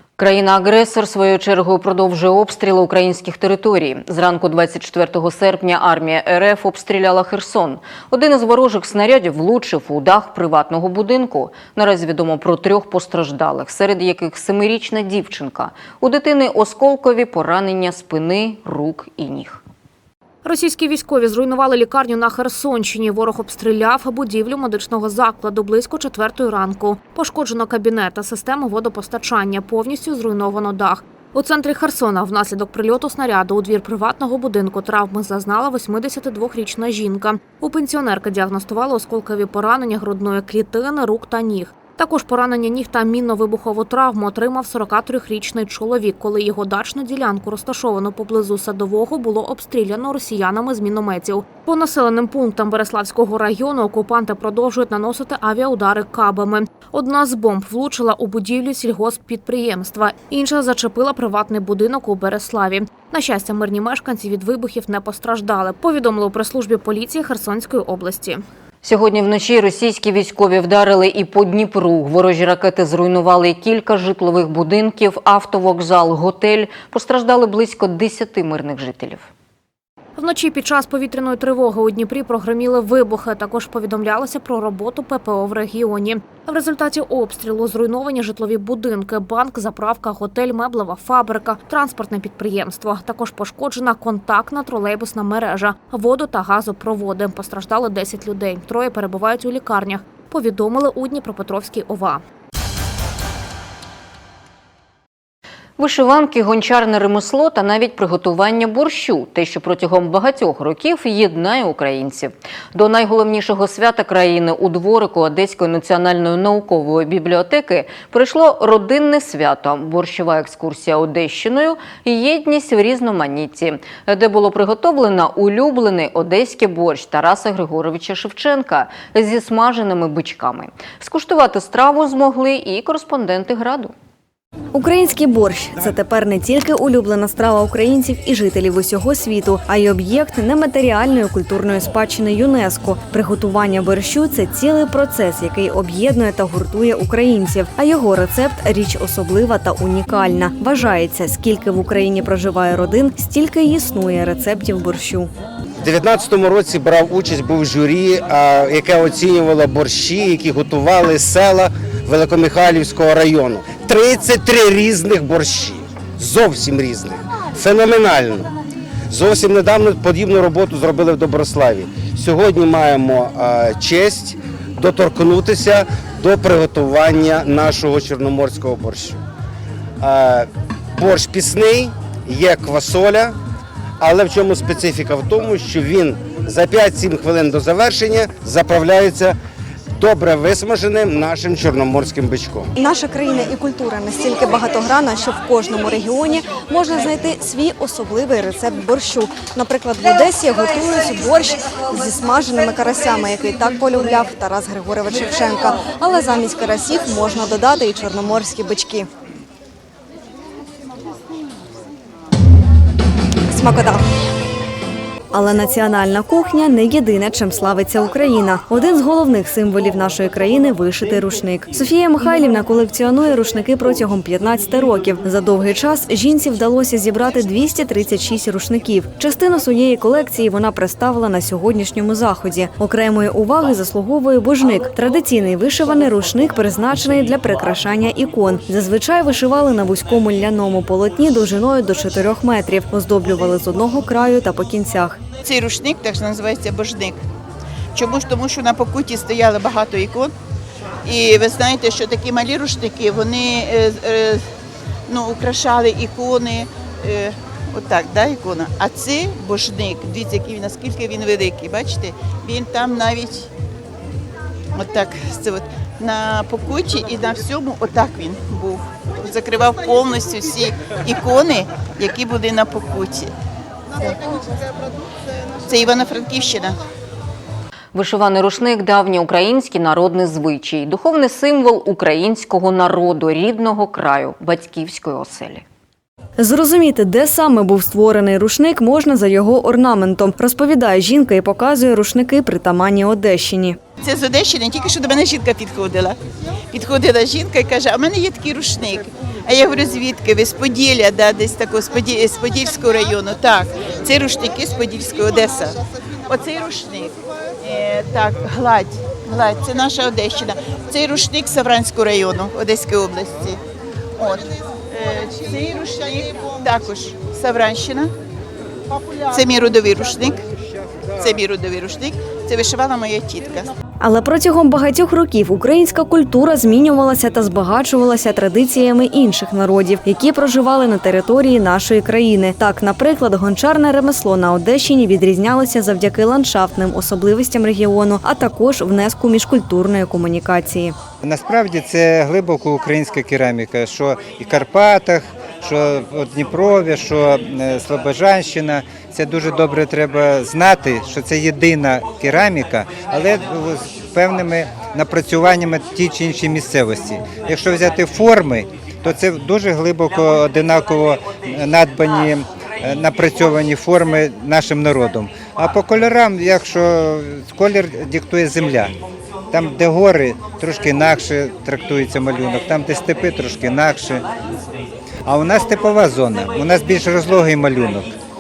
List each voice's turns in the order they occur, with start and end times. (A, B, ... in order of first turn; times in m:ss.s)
0:00.2-0:19.6 A
0:20.4-1:08.4 B
1:08.8-1:19.3 A
1:20.2-1:42.2 B
1:45.8-2:13.9 A
2:14.7-2:35.3 C
2:35.8-2:48.5 D
2:49.1-2:59.2 D
3:00.0-3:03.4 D
3:04.0-3:09.4 D
3:10.0-3:12.7 D
3:12.8-3:29.1 C
3:33.5-3:34.0 C
3:35.3-4:05.2 C
4:05.4-4:07.2 E
4:07.9-4:10.3 E
4:11.0-4:14.4 E
4:15.1-4:23.5 E
4:24.7-4:33.3 E
4:35.6-4:36.8 E
4:37.9-4:45.6 A
4:46.4-4:53.8 C
4:54.0-4:56.2 E
4:56.7-5:13.6 E
5:14.2-5:18.1 E
5:19.3-5:20.4 E
5:21.2-5:23.7 E
5:24.0-5:41.0 C
5:41.2-6:08.9 F
6:09.5-6:14.2 F
6:15.2-6:18.1 F